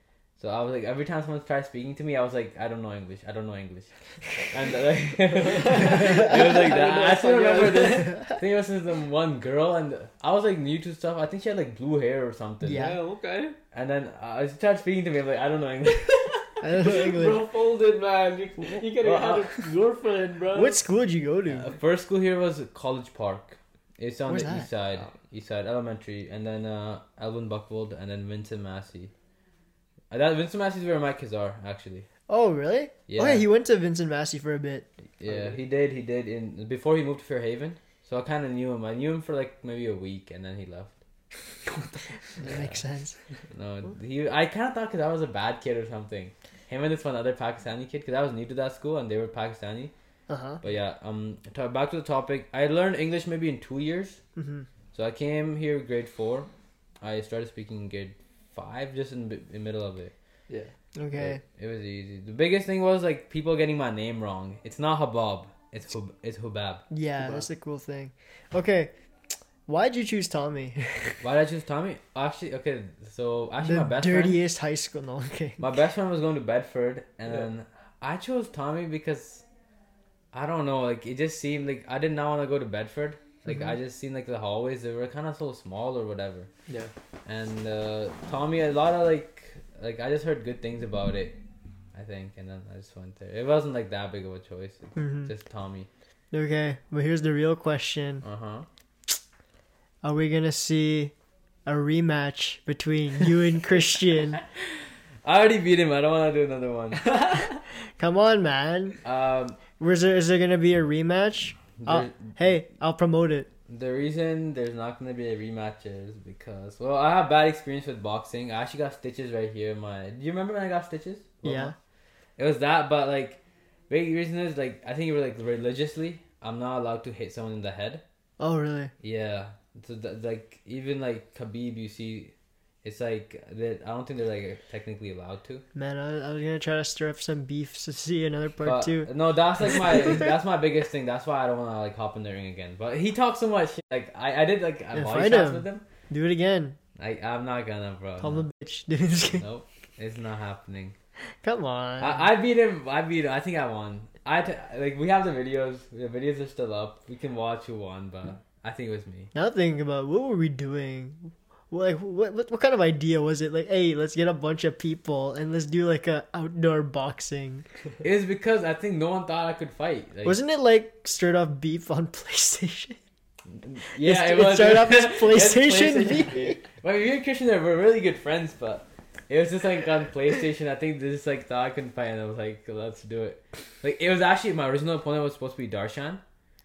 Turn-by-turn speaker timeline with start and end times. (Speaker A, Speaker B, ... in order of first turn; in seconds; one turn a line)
Speaker A: 0.4-12.9
Speaker B: 5.3-8.2
Speaker C: 6.0-6.4
Speaker C: 8.1-8.3
Speaker C: 12.6-13.0
Speaker B: 12.7-13.6
Speaker A: 13.7-16.5
Speaker C: 16.6-17.4
Speaker B: 16.7-20.8
Speaker A: 19.0-19.6
Speaker C: 20.5-21.7
Speaker A: 21.5-29.1
Speaker C: 24.3-24.7
Speaker A: 30.1-32.1
Speaker C: 32.3-34.9
Speaker A: 33.1-33.5
Speaker A: 35.2-41.0
Speaker B: 35.2-35.5
Speaker A: 42.4-42.8
Speaker C: 42.4-43.2
Speaker A: 43.5-49.9
Speaker C: 50.3-50.6
Speaker A: 50.6-54.2
Speaker C: 54.4-54.7
Speaker A: 54.9-56.5
Speaker A: 57.0-60.1
Speaker B: 60.5-60.7
Speaker C: 61.0-61.4
Speaker A: 61.1-66.8
Speaker C: 66.9-68.9
Speaker B: 67.2-67.5
Speaker C: 69.7-71.2
Speaker A: 71.2-74.4
Speaker C: 73.6-75.6
Speaker A: 75.6-79.4
Speaker A: 80.3-86.5
Speaker B: 86.7-86.9
Speaker A: 87.2-91.4
Speaker A: 91.9-95.9
Speaker C: 95.0-95.3
Speaker C: 96.3-98.2
Speaker A: 98.2-98.7
Speaker C: 100.0-101.1
Speaker C: 101.7-104.4
Speaker A: 105.2-107.4
Speaker C: 108.0-109.0
Speaker A: 109.0-109.6
Speaker C: 109.8-113.5
Speaker A: 111.8-112.4
Speaker A: 113.7-121.8
Speaker C: 121.4-121.7
Speaker A: 122.4-128.0
Speaker C: 128.4-128.9
Speaker A: 129.0-135.6
Speaker C: 135.7-139.1
Speaker A: 138.6-145.8
Speaker C: 139.8-140.2
Speaker C: 144.9-146.8
Speaker A: 147.0-148.4
Speaker C: 148.2-149.4
Speaker A: 149.2-150.9
Speaker C: 151.4-152.3
Speaker A: 152.0-159.3
Speaker C: 159.3-167.7
Speaker A: 168.0-170.4
Speaker C: 170.2-173.0
Speaker A: 173.5-186.2
Speaker C: 174.0-176.6